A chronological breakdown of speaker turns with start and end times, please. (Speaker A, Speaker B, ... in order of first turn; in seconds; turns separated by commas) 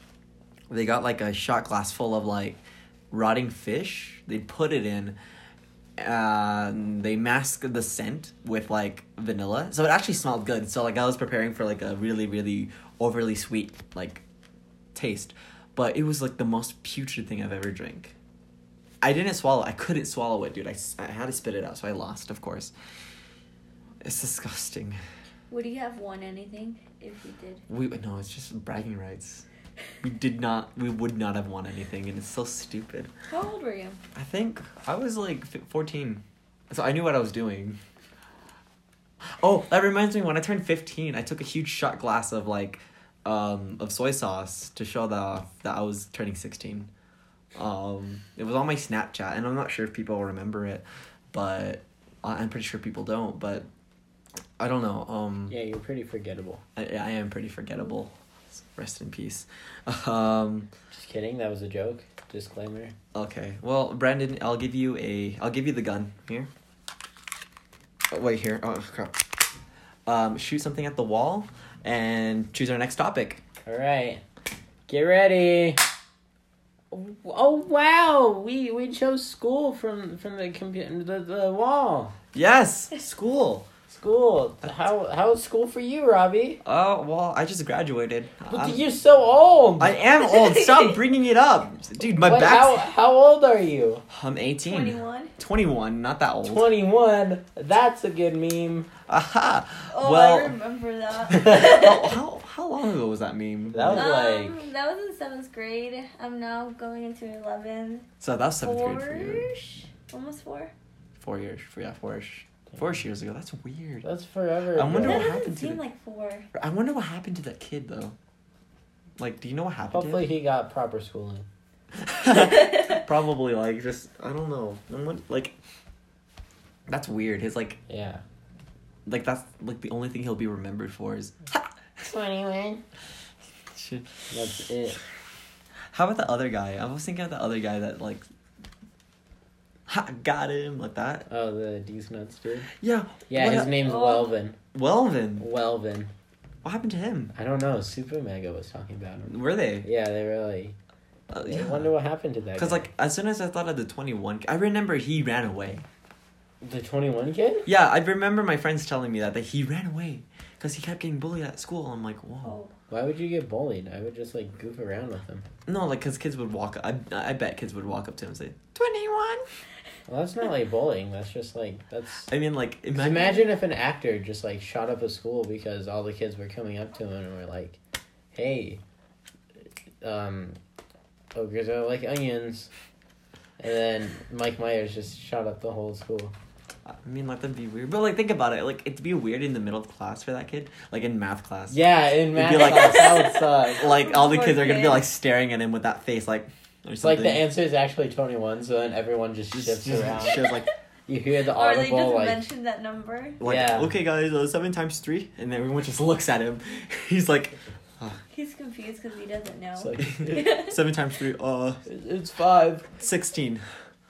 Speaker A: 0.7-5.2, Speaker A: 6.0-14.2, Speaker A: 14.9-18.1, Speaker A: 19.0-22.7, Speaker A: 24.0-25.0, Speaker B: 25.5-27.6, Speaker A: 27.7-29.4, Speaker A: 30.0-33.1, Speaker B: 33.3-34.0, Speaker A: 34.1-37.8, Speaker A: 39.4-46.9, Speaker A: 47.5-53.7, Speaker A: 54.6-55.5, Speaker C: 55.5-56.6, Speaker A: 56.8-60.7, Speaker C: 60.9-62.9, Speaker A: 63.1-66.5, Speaker A: 68.1-69.2, Speaker A: 70.1-73.4, Speaker C: 73.7-74.2, Speaker C: 74.9-75.8, Speaker C: 76.9-82.1, Speaker A: 82.3-83.7, Speaker C: 83.9-86.6, Speaker A: 86.7-88.8, Speaker C: 88.5-90.0, Speaker A: 89.8-92.8, Speaker B: 90.2-91.0, Speaker C: 92.2-94.0, Speaker A: 94.1-96.7, Speaker B: 94.7-95.3, Speaker C: 96.5-98.9, Speaker A: 99.1-100.6, Speaker B: 99.9-102.2, Speaker A: 101.3-104.1, Speaker C: 103.7-104.7, Speaker B: 104.0-108.1, Speaker A: 108.2-109.5, Speaker B: 108.6-110.7, Speaker A: 111.2-114.1, Speaker C: 114.0-115.3, Speaker A: 114.7-115.8, Speaker B: 115.0-116.5, Speaker A: 116.5-118.2, Speaker A: 119.2-120.3, Speaker C: 119.9-121.5, Speaker A: 122.0-125.6, Speaker B: 122.3-123.0, Speaker A: 126.9-127.8, Speaker C: 127.9-128.2, Speaker A: 129.1-131.7, Speaker C: 132.0-132.8, Speaker A: 133.7-134.3, Speaker C: 134.3-135.0, Speaker A: 135.9-138.2, Speaker A: 139.9-141.3, Speaker C: 141.3-142.7, Speaker A: 142.8-143.8, Speaker C: 143.3-144.6, Speaker B: 143.8-144.3, Speaker A: 144.7-145.5, Speaker C: 145.4-146.1, Speaker A: 146.6-147.3, Speaker C: 147.3-150.8, Speaker A: 149.3-149.9, Speaker A: 151.3-151.9, Speaker C: 151.4-152.9, Speaker A: 152.6-155.8, Speaker C: 156.6-157.7, Speaker A: 157.7-162.6, Speaker B: 162.4-162.7, Speaker C: 162.9-165.5, Speaker A: 165.7-169.4, Speaker C: 170.1-172.3, Speaker A: 172.3-173.5, Speaker C: 172.9-177.8, Speaker C: 178.3-178.8, Speaker C: 180.0-180.6, Speaker C: 181.3-182.7, Speaker C: 183.6-186.3, Speaker A: 186.9-191.8, Speaker C: 191.7-193.9, Speaker A: 192.3-197.4, Speaker B: 192.6-195.1, Speaker C: 197.0-200.4, Speaker A: 199.5-200.7, Speaker C: 201.1-202.4, Speaker B: 201.5-203.4, Speaker A: 203.4-208.2, Speaker C: 203.4-203.9, Speaker B: 208.3-210.8, Speaker C: 209.8-210.5, Speaker A: 210.0-211.8, Speaker C: 211.8-212.9, Speaker A: 213.0-213.6